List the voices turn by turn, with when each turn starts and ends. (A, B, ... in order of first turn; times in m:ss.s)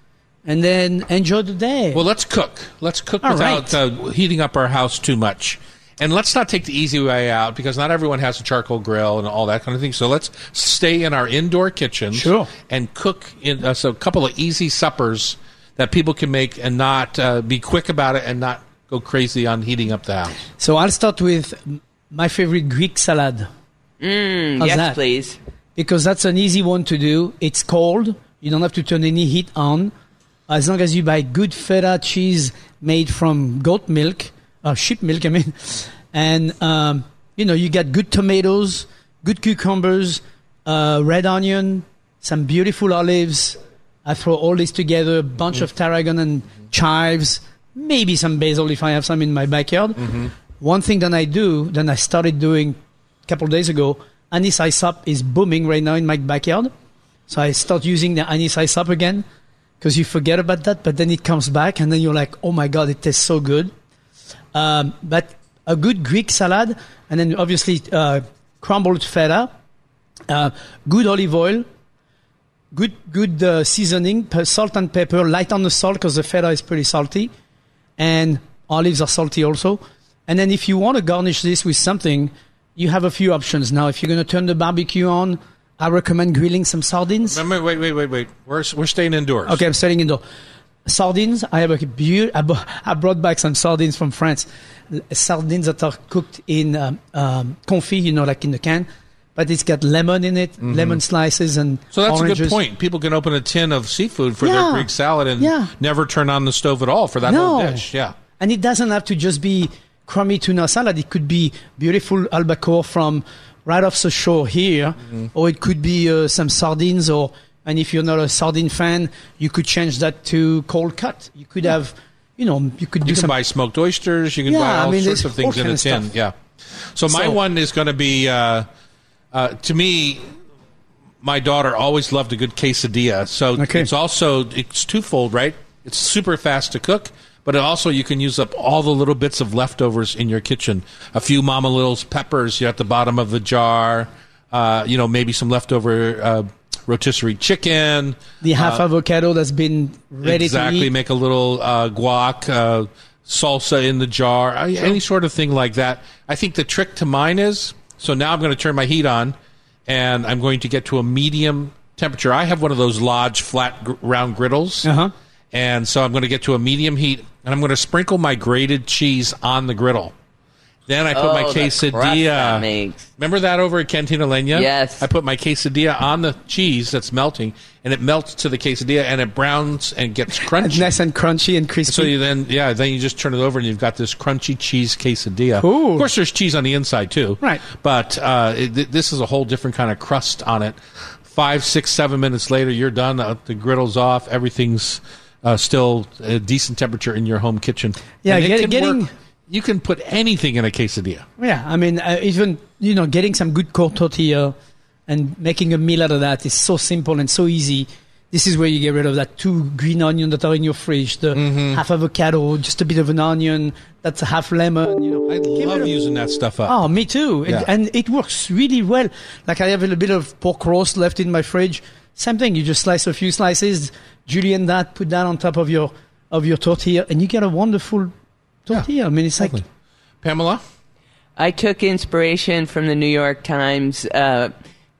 0:00.4-0:02.0 A
0:01.9-0:20.4 B
0:03.2-0:03.8 A
0:12.1-0:12.5 A
0:20.6-0:23.5 A
0:24.0-0:25.4 C
0:24.6-0:25.0 A
0:25.8-0:29.9 A
0:30.5-0:56.7 A
0:50.0-0:50.3 B
0:57.3-0:59.2 A
0:59.8-1:03.7 A
1:04.5-1:09.5 A
1:10.3-1:11.7 A
1:12.7-1:17.3 A
1:18.0-1:27.4 A
1:27.3-1:29.6 B
1:29.4-1:30.2 A
1:30.9-1:42.6 A
1:40.6-1:41.0 B
1:41.9-1:48.2 B
1:44.4-1:45.7 A
1:47.3-1:47.9 A
1:48.4-2:03.4 A
2:03.0-2:08.7 B
2:04.5-2:06.1 A
2:07.1-2:07.4 A
2:09.3-2:10.3 B
2:11.2-2:28.8 B
2:13.6-2:13.9 A
2:28.4-2:30.9 A
2:30.2-2:39.4 B
2:39.9-2:44.9 B
2:44.8-2:45.1 A
2:45.5-2:50.1 B
2:50.9-2:52.7 B
2:51.1-2:53.1 C
2:53.2-3:00.9 B
2:54.5-2:55.1 C
3:00.4-3:02.2 A
3:01.9-3:21.3 B
3:05.6-3:06.1 A
3:18.2-3:19.1 A
3:21.4-3:24.6 A
3:25.1-3:35.9 A
3:31.3-3:31.8 B
3:35.3-3:36.9 B
3:36.7-3:48.1 A
3:48.7-3:49.6 A
3:49.4-3:49.6 B
3:50.2-3:50.6 B
3:51.4-3:54.5 C